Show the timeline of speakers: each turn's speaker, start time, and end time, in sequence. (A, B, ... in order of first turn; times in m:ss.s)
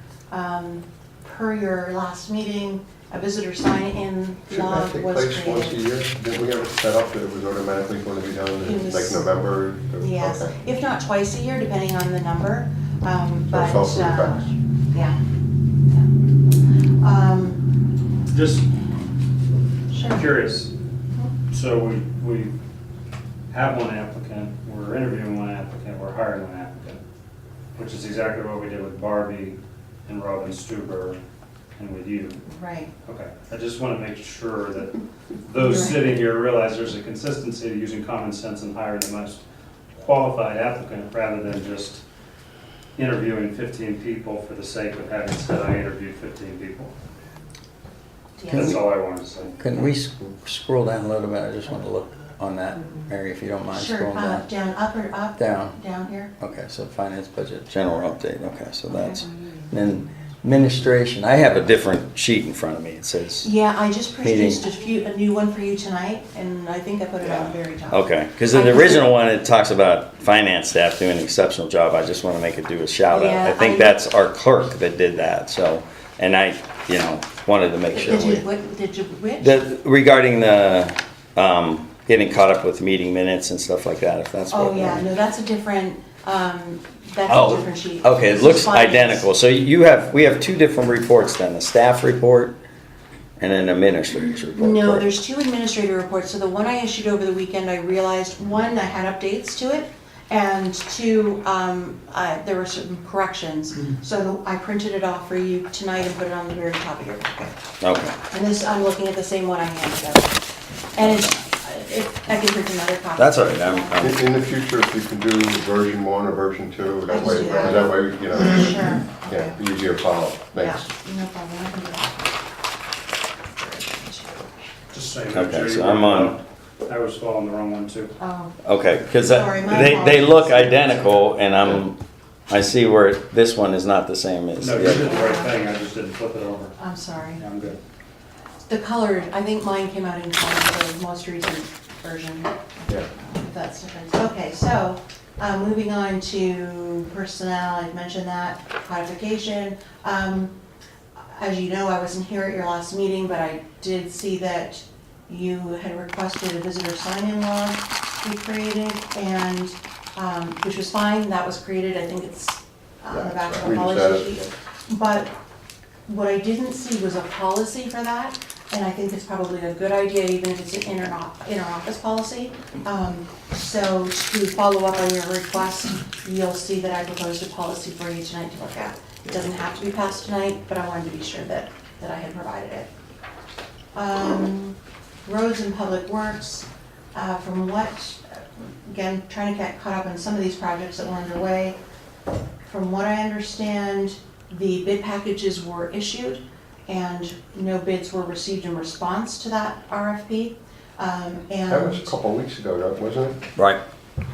0:00.3-0:05.8 A
0:04.5-0:10.5 B
0:08.6-0:09.3 A
0:10.0-0:15.2 A
0:13.5-0:14.5 B
0:16.9-0:17.6 A
0:18.3-0:18.7 C
0:19.9-0:20.2 A
0:20.0-0:20.7 C
0:21.5-0:22.5 C
0:23.5-0:27.0 C
0:27.8-0:31.2 C
0:31.8-0:32.4 C
0:32.5-0:32.9 A
0:33.0-0:39.4 C
0:35.6-0:36.0 A
0:39.9-0:42.0 C
0:43.0-0:46.9 C
0:48.4-0:48.8 A
0:48.5-0:48.8 D
0:48.5-0:49.6 C
0:49.6-0:54.4 D
0:53.7-0:56.3 A
0:55.4-0:55.7 D
0:56.4-1:03.5 D
0:58.9-0:59.2 A
1:03.4-1:09.1 A
1:04.2-1:04.6 D
1:07.2-1:18.4 D
1:13.1-1:14.0 A
1:17.9-1:19.7 A
1:19.4-1:25.0 D
1:24.5-1:29.3 A
1:27.3-1:32.6 D
1:33.4-1:35.0 D
1:34.6-1:50.4 A
1:47.8-1:48.1 D
1:50.9-1:54.0 A
1:53.2-1:54.2 D
1:54.0-2:00.8 B
1:57.0-1:59.6 A
2:00.5-2:02.4 A
2:03.5-2:04.5 A
2:04.9-2:08.2 C
2:05.3-2:06.3 D
2:08.2-2:08.5 A
2:08.6-2:15.3 D
2:09.2-2:10.9 A
2:14.6-2:16.8 C
2:15.0-2:15.6 A
2:16.8-2:17.4 A
2:17.3-2:17.8 C
2:18.7-2:30.5 A
2:31.2-2:45.3 A
2:43.1-2:44.5 B
2:46.1-3:02.9 A
3:03.9-3:11.8 A
3:12.6-3:22.1 A
3:21.7-3:23.4 B